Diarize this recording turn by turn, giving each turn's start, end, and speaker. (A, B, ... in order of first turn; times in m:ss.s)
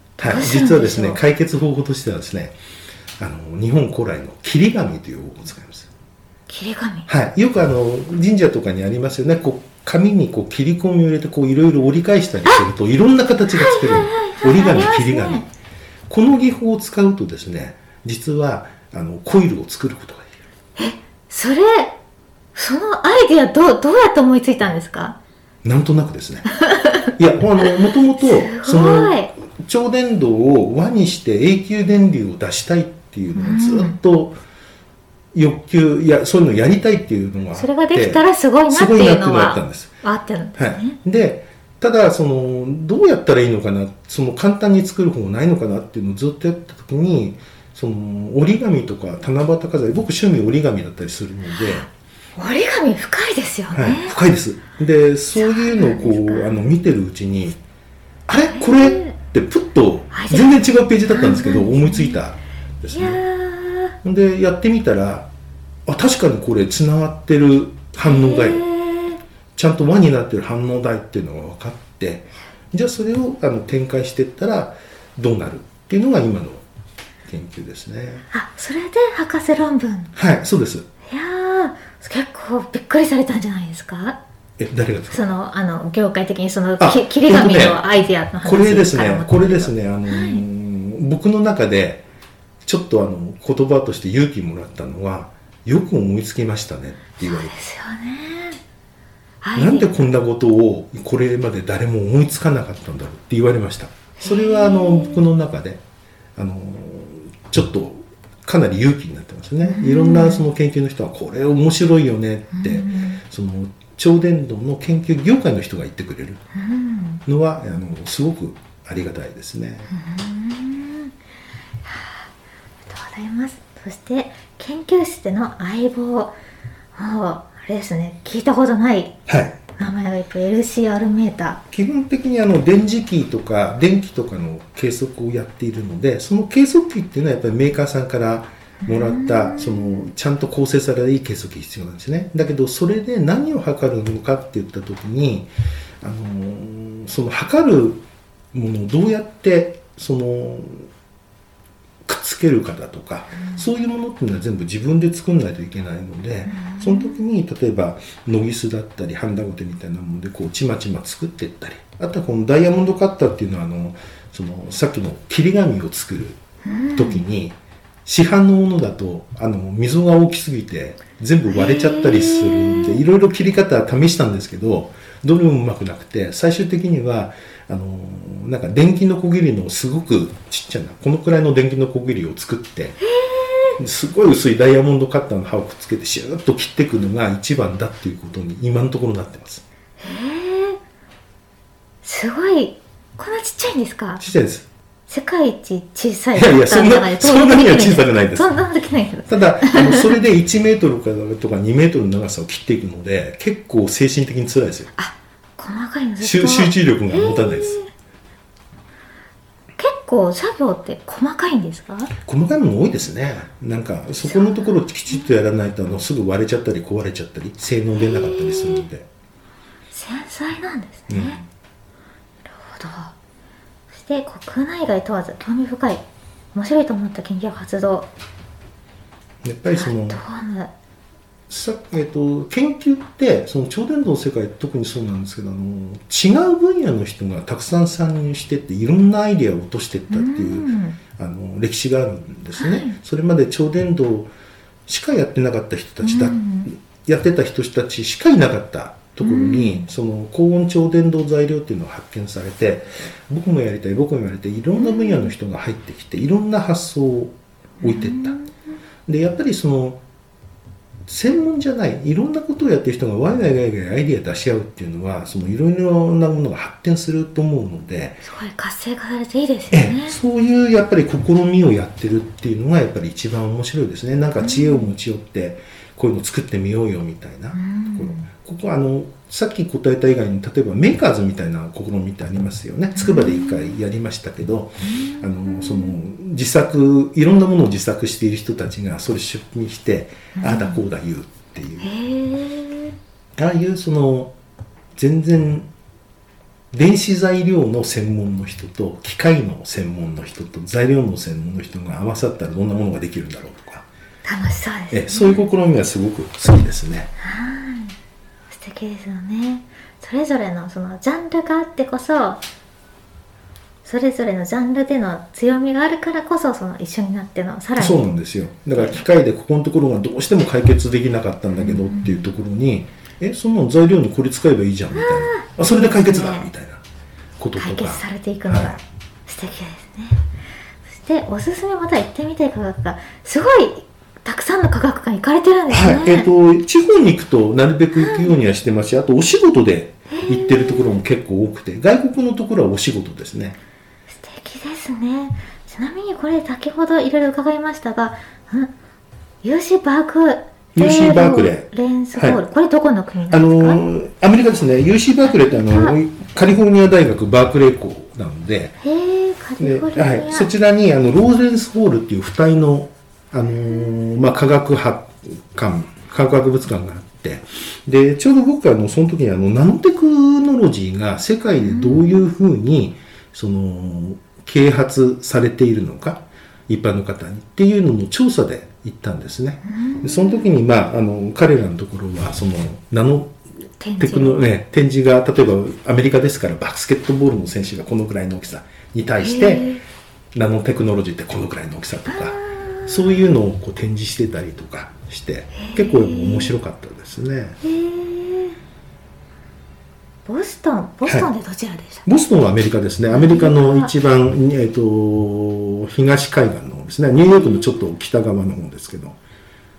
0:00.2-0:01.2 A
0:00.2-0:02.5 B
0:03.2-0:05.9 B
0:06.5-0:07.1 A
0:07.1-0:15.5 B
0:13.5-0:15.4 A
0:16.1-0:20.3 B
0:20.8-0:21.9 A
0:22.5-0:25.2 A
0:25.6-0:26.5 B
0:26.5-0:27.1 A
0:27.2-0:34.4 B
0:27.7-0:29.3 A
0:33.3-0:34.0 A
0:35.3-0:39.9 B
0:37.6-0:41.0 A
0:40.6-0:51.9 B
0:51.6-0:51.8 A
0:52.4-0:54.1 A
0:53.7-0:57.6 B
0:55.3-0:56.6 A
0:58.3-1:03.2 B
0:58.5-0:59.1 A
1:00.1-1:02.2 A
1:02.9-1:03.9 A
1:04.0-1:05.3 B
1:05.8-1:08.6 B
1:08.0-1:09.2 A
1:09.5-1:16.6 B
1:17.2-1:18.2 B
1:18.3-1:20.1 A
1:20.1-1:20.8 B
1:21.1-1:24.2 A
1:24.6-1:25.2 B
1:25.1-1:30.4 A
1:26.8-1:27.8 B
1:28.4-1:32.0 B
1:32.6-1:37.5 B
1:37.2-1:38.6 A
1:39.4-1:40.0 A
1:39.6-1:45.8 B
1:44.2-1:45.2 A
1:46.4-1:56.4 B
1:49.6-1:50.4 A
1:52.5-1:53.2 A
1:56.5-1:57.2 A
1:57.2-1:59.9 B
1:59.9-2:01.1 A
2:01.8-2:02.3 A
2:02.9-2:06.4 A
2:06.9-2:09.2 A
2:09.3-2:09.6 B
2:09.8-2:11.6 A
2:11.7-2:25.5 B
2:18.8-2:20.1 A
2:26.0-2:28.0 B
2:28.5-2:30.9 B
2:32.0-2:46.4 B
2:36.5-2:37.2 A
2:46.6-2:47.2 A
2:46.9-3:03.0 B
2:51.5-2:53.0 A
3:03.0-3:03.8 A
3:03.8-3:09.6 B
3:10.0-3:10.8 A
3:12.0-3:14.2 A
3:14.2-3:14.6 B
3:15.1-3:20.2 A
3:16.3-3:18.5 B
3:19.3-3:24.9 B
3:25.0-3:27.9 A
3:26.2-3:27.8 B
3:29.8-3:32.1 A
3:32.2-3:39.0 B
3:34.2-3:35.3 A
3:38.0-3:38.8 A
3:39.9-3:41.4 A
3:41.1-3:41.4 B
3:42.5-3:43.1 A
3:43.9-3:48.1 A
3:49.4-3:50.2 B
3:49.7-3:50.7 A
3:51.5-4:04.3 B
4:00.1-4:01.0 A
4:02.6-4:03.0 A
4:04.9-4:18.4 B
4:06.0-4:06.7 A
4:09.2-4:09.9 A
4:14.8-4:15.3 A
4:17.8-4:18.6 A
4:19.1-4:20.0 B
4:21.0-4:28.2 B
4:28.2-4:30.2 A
4:29.7-4:51.9 B
4:34.4-4:34.9 A
4:37.5-4:38.3 A
4:42.9-4:43.8 A
4:44.8-4:46.0 A
4:50.4-4:50.8 A
4:51.8-4:53.0 A
4:53.4-4:54.3 B
4:55.0-4:55.7 B
4:56.7-5:03.8 B
5:04.2-5:05.4 A
5:04.9-5:07.1 B
5:07.2-5:08.0 A
5:08.5-5:12.4 A
5:13.8-5:18.0 A
5:17.8-5:26.8 B
5:21.6-5:22.1 A
5:24.9-5:26.5 A
5:27.4-5:28.8 B
5:27.6-5:30.2 A
5:30.8-5:36.3 A
5:35.7-5:43.6 B
5:38.0-5:38.3 A
5:40.1-5:40.9 A
5:44.1-5:48.7 A
5:49.4-5:53.8 A
5:50.7-5:52.4 B
5:53.3-5:58.7 B
5:55.2-5:55.9 A
5:58.8-6:00.5 A
5:59.6-6:23.4 B
6:11.6-6:12.3 A
6:19.6-6:20.5 A
6:23.8-6:24.5 A
6:24.0-6:29.7 B
6:29.2-6:29.8 A
6:30.3-6:37.6 B
6:32.1-6:33.2 A
6:35.5-6:36.5 A
6:37.6-6:38.6 A
6:40.2-6:42.0 A
6:42.0-6:49.2 B
6:43.1-6:43.9 A
6:47.4-6:47.8 A